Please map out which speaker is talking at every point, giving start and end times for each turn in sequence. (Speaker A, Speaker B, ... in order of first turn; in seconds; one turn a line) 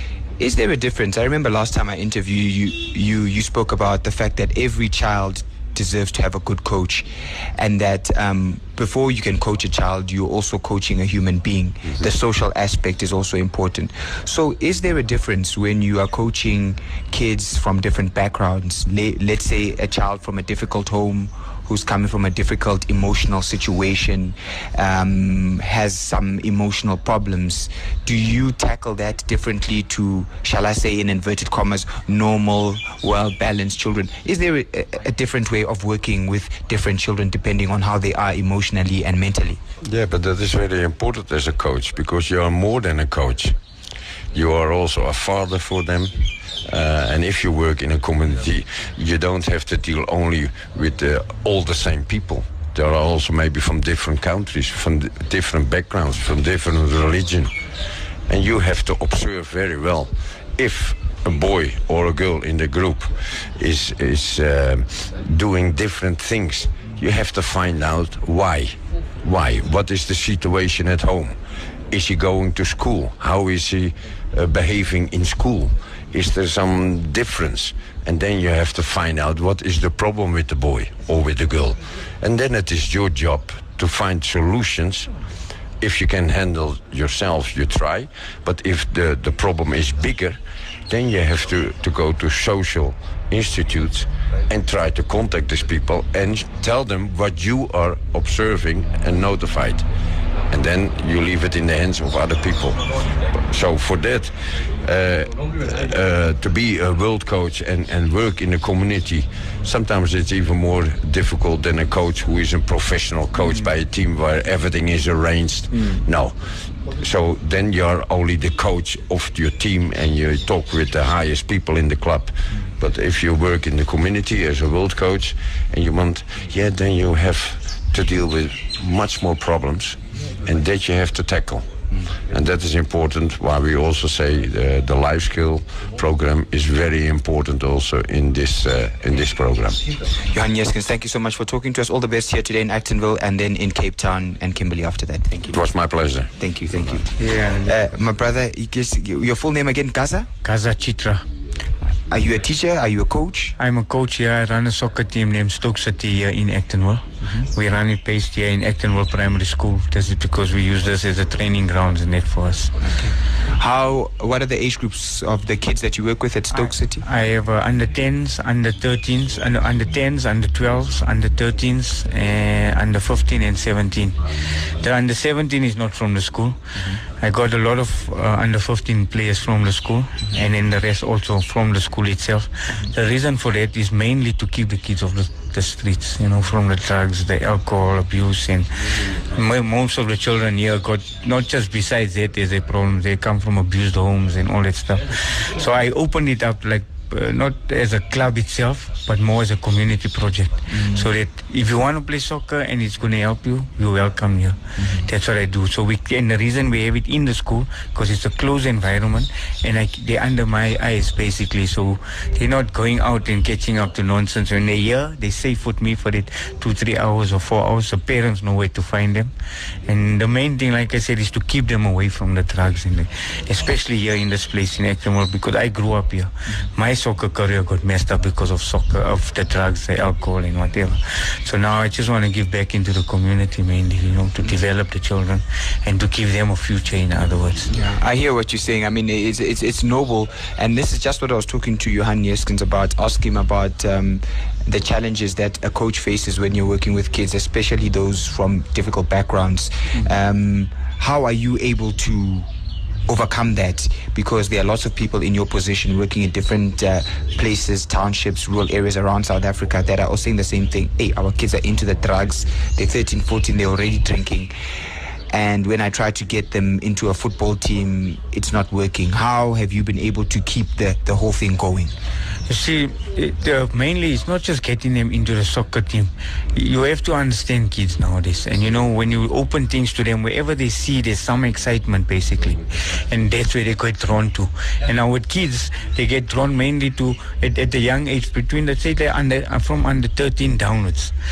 Speaker A: 0.4-39.6
Speaker B: 39.8-43.6
Speaker B: 44.3-57.5
Speaker B: 58.3-71.4
Speaker B: 71.9-85.1
Speaker B: 85.8-99.8
Speaker B: 100.5-116.4
Speaker A: 115.7-116.0
Speaker B: 117.0-131.7
Speaker B: 132.3-139.8
Speaker A: 140.2-145.6
Speaker B: 145.5-146.3
Speaker A: 146.4-147.1
Speaker C: 147.2-147.8
Speaker A: 147.6-150.3
Speaker C: 150.4-151.2
Speaker A: 152.1-153.5
Speaker C: 153.6-162.7
Speaker A: 162.8-167.0
Speaker C: 166.5-174.2
Speaker C: 174.8-176.6
Speaker C: 177.2-219.3
Speaker A: 200.7-201.1
Speaker A: 204.8-205.1
Speaker C: 219.8-237.7
Speaker A: 237.7-252.5
Speaker A: 253.1-264.5
Speaker A: 265.3-271.9
Speaker C: 272.4-291.1